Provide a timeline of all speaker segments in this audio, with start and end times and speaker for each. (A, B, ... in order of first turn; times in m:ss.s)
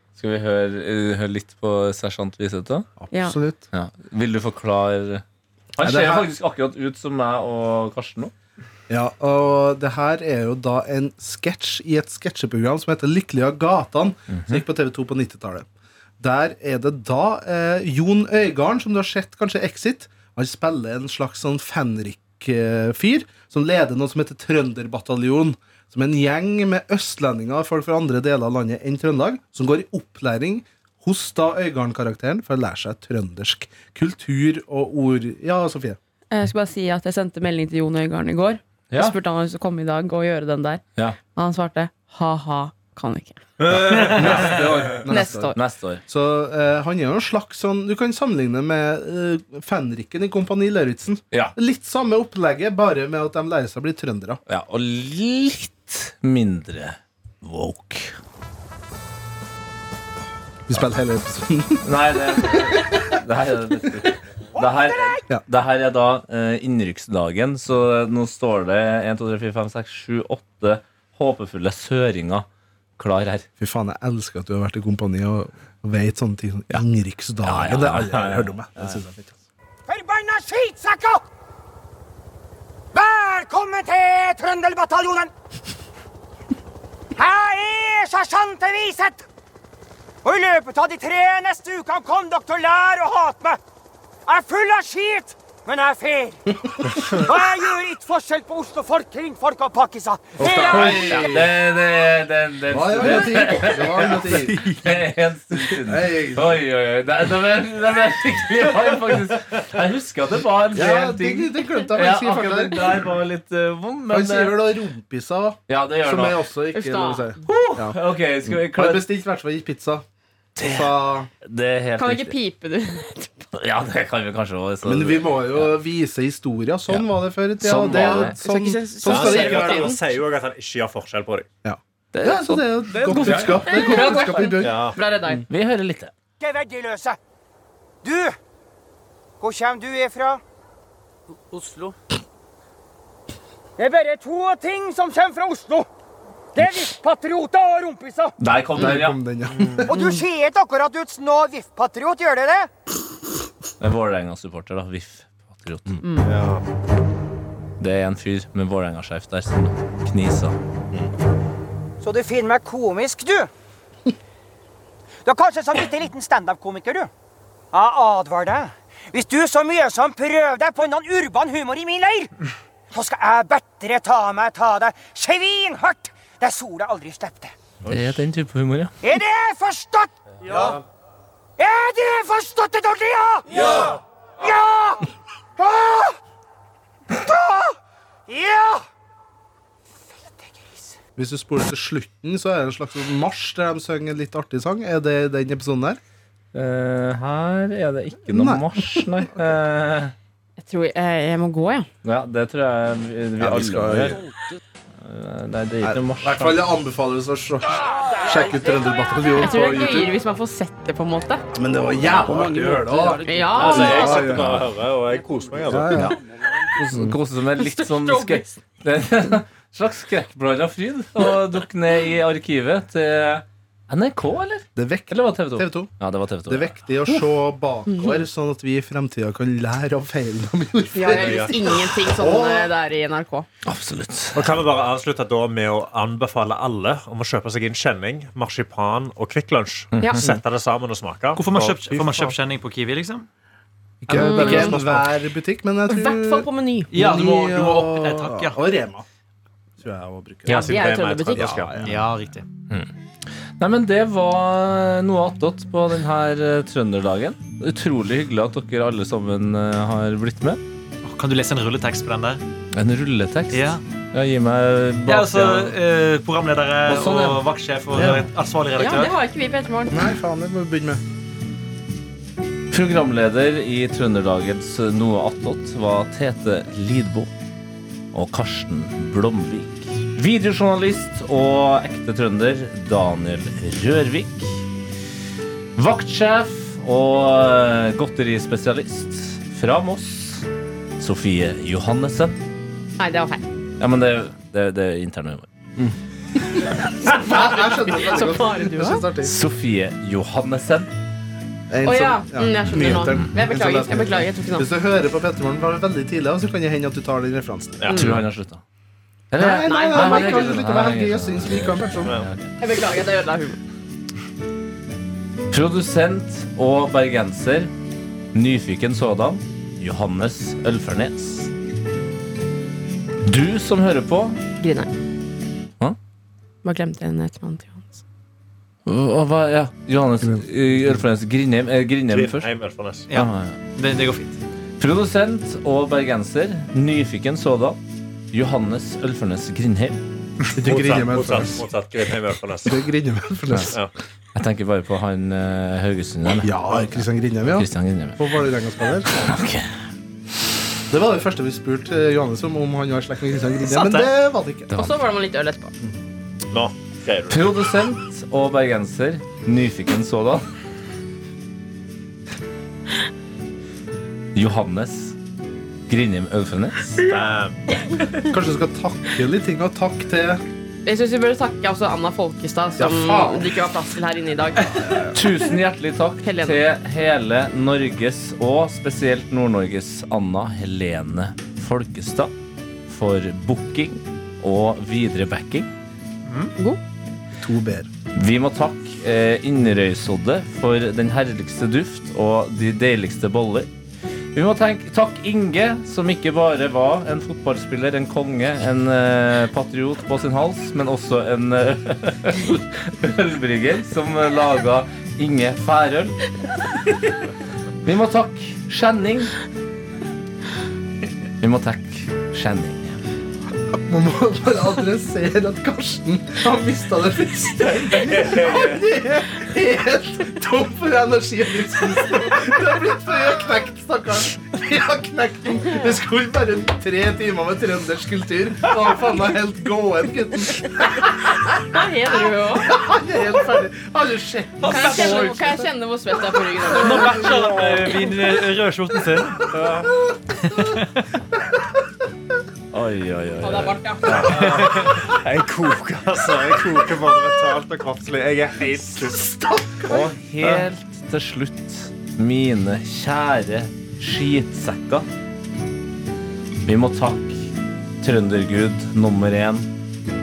0:00.2-0:02.9 A
0:03.0-0:03.7 B
0:03.1-0:03.4 C
0:03.7-0:05.2 A
0:05.8-0:08.3 A
0:05.8-0:06.3 B
0:08.9-0:15.7 B
0:14.3-0:14.6 A
0:16.2-0:36.0 B
0:36.3-0:40.8 C
0:38.9-0:39.2 A
0:41.3-0:43.4 C
0:43.6-0:44.6 D
0:44.1-0:45.5 B
0:45.1-0:45.6 C
0:45.5-0:46.0 A
0:46.1-0:54.4 B
0:54.5-0:58.2 A
1:00.7-1:02.7 B
1:01.8-1:12.4 A
1:13.0-1:13.4 A
1:13.6-1:19.4 B
1:17.4-1:18.9 A
1:19.9-1:21.2 E
1:22.9-1:25.3 E
1:27.2-1:29.2 E
1:30.2-1:33.6 E
1:34.2-1:36.4 E
1:36.5-1:37.1 B
1:37.2-1:41.2 E
1:40.4-1:41.6 B
1:40.4-1:54.7 A
1:42.7-1:44.6 B
1:45.8-1:46.6 B
1:50.7-1:53.0 B
1:54.1-2:00.0 B
1:55.7-1:56.4 A
1:56.7-1:57.4 C
1:57.4-1:59.1 A
2:00.6-2:01.3 B
2:00.6-2:02.4 A
2:02.0-2:03.3 C
2:03.5-2:05.8 A
2:04.8-2:10.0 B
2:06.9-2:08.4 A
2:07.7-2:10.0 C
2:09.0-2:11.5 D
2:11.6-2:15.4 B
2:12.1-2:14.0 A
2:13.0-2:15.4 C
2:14.6-2:15.0 D
2:15.5-2:16.1 A
2:16.4-2:17.2 E
2:18.0-2:18.4 E
2:19.4-2:20.4 E
2:21.5-2:21.9 E
2:23.8-2:25.9 E
2:26.5-2:28.3 E
2:28.4-2:29.2 A
2:28.8-2:29.9 B
2:29.6-2:29.8 D
2:29.8-2:32.7 E
2:29.9-2:30.2 C
2:33.8-2:36.0 A
2:36.0-2:36.3 C
2:36.2-2:36.6 D
2:37.8-2:40.6 A
2:42.0-2:43.5 E
2:45.2-2:47.1 E
2:47.7-2:52.3 E
2:52.9-2:57.5 E
2:57.9-2:58.9 A
2:59.0-3:00.7 E
3:01.6-3:03.8 E
3:04.4-3:05.1 E
3:05.6-3:06.2 E
3:07.1-3:08.8 E
3:10.4-3:11.0 E
3:11.2-3:16.0 B
3:16.5-3:20.1 A
3:18.3-3:19.2 B
3:20.6-3:21.9 C
3:22.0-3:24.2 A
3:23.4-3:24.2 B
3:25.0-3:26.7 A
3:25.8-3:30.1 B
3:29.4-3:31.4 C
3:31.5-3:34.7 B
3:33.1-3:34.4 C
3:33.5-3:36.0 D
3:35.7-3:36.2 B
3:35.9-3:46.8 A
3:36.9-3:37.2 B
3:37.6-3:38.6 C
3:44.7-3:45.9 B
3:46.5-3:52.7 B
3:47.9-3:48.2 C
3:50.9-3:53.5 C
3:51.1-3:51.8 D
3:53.6-3:54.6 A
3:54.3-4:02.3 D
3:59.9-4:00.4 A
4:01.4-4:03.3 F
4:04.0-4:09.0 B
4:04.1-4:05.0 D
4:04.1-4:04.8 C
4:05.9-4:06.9 C
4:06.9-4:08.6 F
4:09.8-4:12.0 B
4:10.4-4:11.9 D
4:10.5-4:11.6 C
4:11.8-4:12.4 F
4:13.6-4:20.6 A
4:21.0-4:22.4 F
4:22.7-4:25.7 A
4:23.5-4:23.8 F
4:25.0-4:29.1 F
4:26.8-4:27.4 A
4:27.9-4:28.2 B
4:28.8-4:30.1 C
4:29.9-4:31.0 B
4:32.7-4:37.3 A
4:38.1-4:44.6 A
4:45.8-4:50.4 A
4:51.0-4:52.4 A
4:53.0-4:53.4 C
4:53.8-4:55.9 A
4:57.0-4:59.0 C
4:57.1-4:59.3 B
4:59.2-5:00.9 A
5:01.7-5:07.8 B
5:01.8-5:04.7 C
5:02.8-5:03.3 A
5:07.8-5:08.2 D
5:07.9-5:08.2 C
5:07.9-5:08.6 A
5:09.3-5:12.4 A
5:09.4-5:12.2 B
5:09.4-5:10.6 C
5:12.6-5:13.6 C
5:15.5-5:17.7 A
5:18.3-5:21.5 A
5:23.2-5:24.4 A
5:24.6-5:24.9 C
5:26.6-5:28.0 C
5:28.8-5:32.5 A
5:32.1-5:33.1 D
5:33.1-5:34.4 F
5:33.1-5:33.6 A
5:34.8-5:37.8 A
5:38.3-5:40.0 A
5:40.5-5:42.8 D
5:40.6-5:41.7 B
5:42.6-5:43.8 B
5:44.3-5:48.2 A
5:46.4-5:49.2 B
5:49.1-5:49.7 A
5:50.9-5:54.7 B
5:53.7-5:54.0 C
5:54.7-5:55.0 A
5:54.8-5:55.7 C
5:56.5-5:57.5 D
5:57.3-6:00.4 A
6:04.3-6:05.1 A
6:05.9-6:07.0 A
6:07.0-6:07.6 D
6:08.3-6:10.4 B
6:10.8-6:14.7 C
6:12.8-6:13.6 B
6:14.6-6:15.2 B
6:15.1-6:22.3 A
6:16.2-6:16.6 C
6:22.9-6:25.7 A
6:26.2-6:26.5 F
6:27.4-6:27.9 B
6:28.1-6:33.7 A
6:34.3-6:46.2 A
6:47.8-6:49.3 A
6:51.4-6:53.0 A
6:53.8-7:10.9 B
7:11.5-7:12.7 C
7:12.5-7:15.7 B
7:14.6-7:15.3 F
7:14.6-7:17.3 C
7:16.7-7:19.4 F
7:16.8-7:17.7 B
7:19.4-7:20.0 D
7:20.4-7:21.0 F
7:22.7-7:24.9 A
7:23.4-7:24.4 C
7:24.1-7:29.2 D
7:24.2-7:25.0 F
7:28.9-7:30.1 B
7:29.9-7:35.1 A
7:30.4-7:30.7 D
7:36.6-7:39.6 A